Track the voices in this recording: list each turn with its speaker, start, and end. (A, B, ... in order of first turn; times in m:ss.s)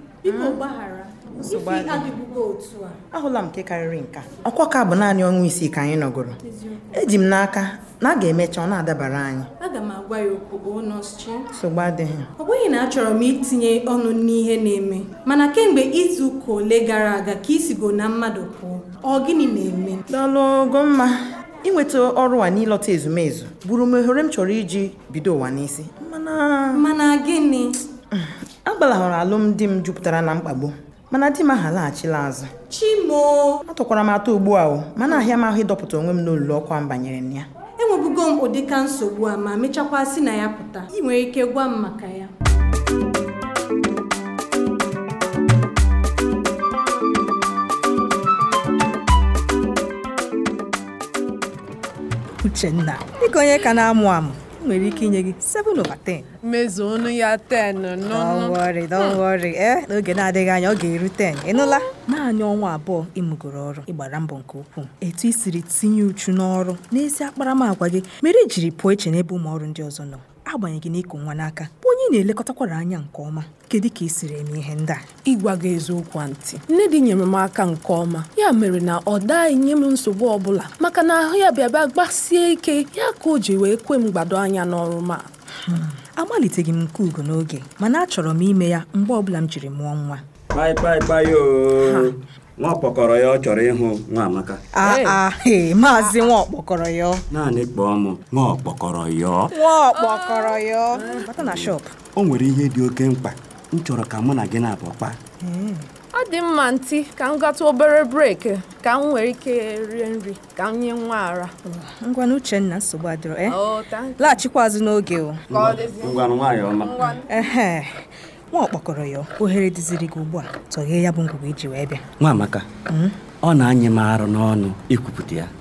0:00.2-0:00.6 A
0:00.7-0:01.0 B
0:01.4-0:02.1 A
0:01.6-0:03.0 B
0:03.1-0:06.4 A
0:06.9-0:09.5 A
0:09.6-0:11.4 B
0:11.5-0:12.3 A
0:12.4-0:20.0 B
0:20.1-0:26.9 A
0:26.8-0:27.7 B
0:28.6-0:32.5 A
0:32.7-0:33.6 B
0:33.7-0:37.5 A
0:37.8-0:42.3 B
0:52.4-0:56.2 C
0:54.3-0:54.6 A
0:56.4-0:59.2 B
0:58.2-1:15.0 C
1:15.2-1:25.2 D
1:26.2-1:30.1 C
1:30.5-1:34.6 E
1:34.8-1:37.2 C
1:37.3-1:39.5 E
1:39.6-1:41.7 C
1:39.7-1:40.2 A
1:39.9-1:40.6 B
1:41.4-1:45.2 E
1:48.1-1:49.4 D
1:50.0-1:51.4 D
1:51.9-1:53.6 C
1:54.2-1:55.3 C
1:55.5-1:57.0 E
1:57.3-1:57.8 C
1:58.5-2:02.0 C
2:02.2-2:02.7 E
2:03.4-2:05.5 E